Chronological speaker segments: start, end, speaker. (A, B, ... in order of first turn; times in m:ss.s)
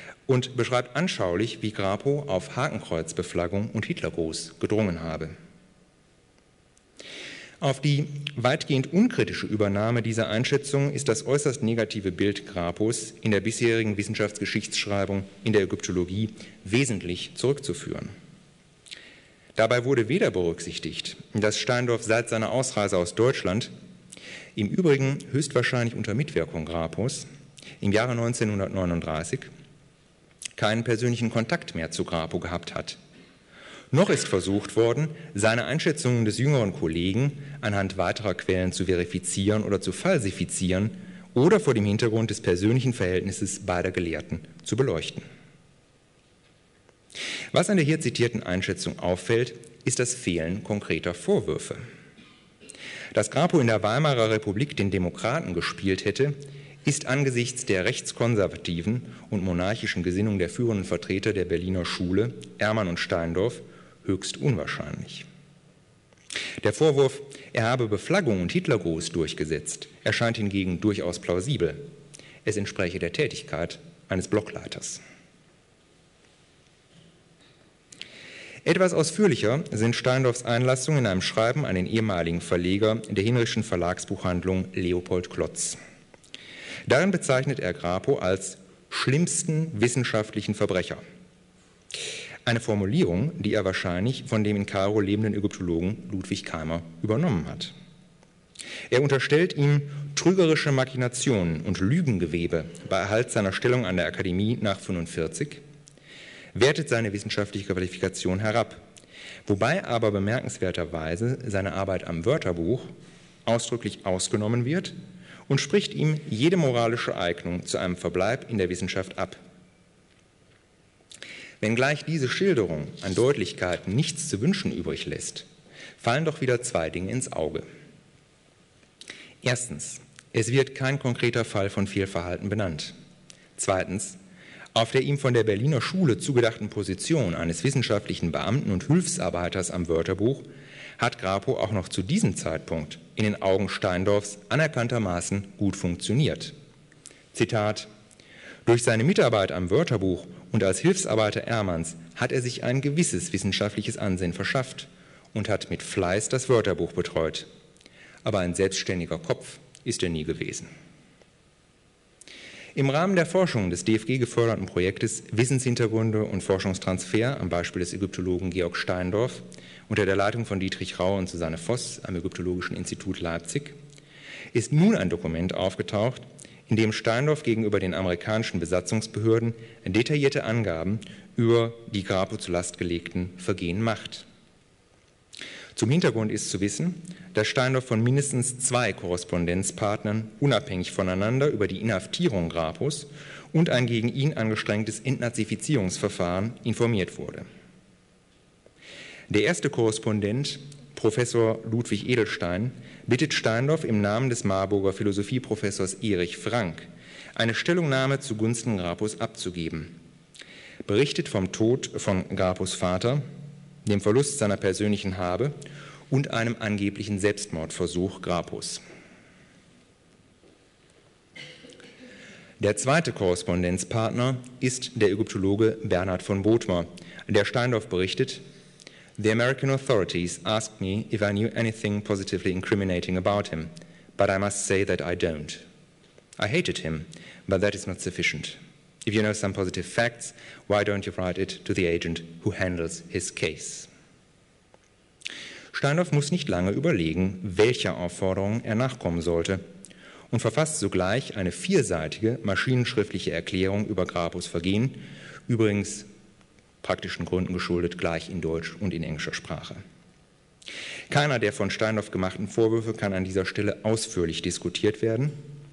0:00.3-0:05.3 A
0:07.6-0:18.1 A
0:19.6-0:23.7 A
0:24.6-0:27.3 A
0:27.8-0:29.5 A
0:30.6-0:33.0 A
0:33.9-0:45.2 A
0:47.5-0:51.8 A
0:53.1-1:05.3 A
1:06.6-1:11.9 A
1:12.4-1:15.0 A
1:18.6-1:25.8 A
1:26.9-1:31.0 A
1:32.4-1:37.7 A
1:38.9-1:45.6 A
1:46.5-1:48.8 A
1:49.4-1:52.9 A
1:53.4-1:54.9 A
1:55.5-1:59.4 A
2:01.6-2:05.4 A
2:06.0-2:07.6 A
2:09.4-2:12.9 A
2:13.6-2:14.2 A
2:14.7-2:20.5 A
2:21.0-2:26.5 A
2:27.3-2:27.9 A
2:28.6-2:37.5 A
2:38.2-2:40.7 A
2:42.7-2:53.8 A
2:54.5-3:04.2 A
3:05.8-3:17.4 A
3:19.3-3:30.0 A
3:30.8-3:33.2 A
3:33.8-3:35.5 A
3:36.1-3:38.8 A
3:42.6-3:48.4 A
3:49.2-3:55.6 A
3:56.4-4:03.9 A
4:05.7-4:09.6 A
4:10.3-4:16.1 A
4:16.8-4:19.8 A
4:21.1-4:25.4 A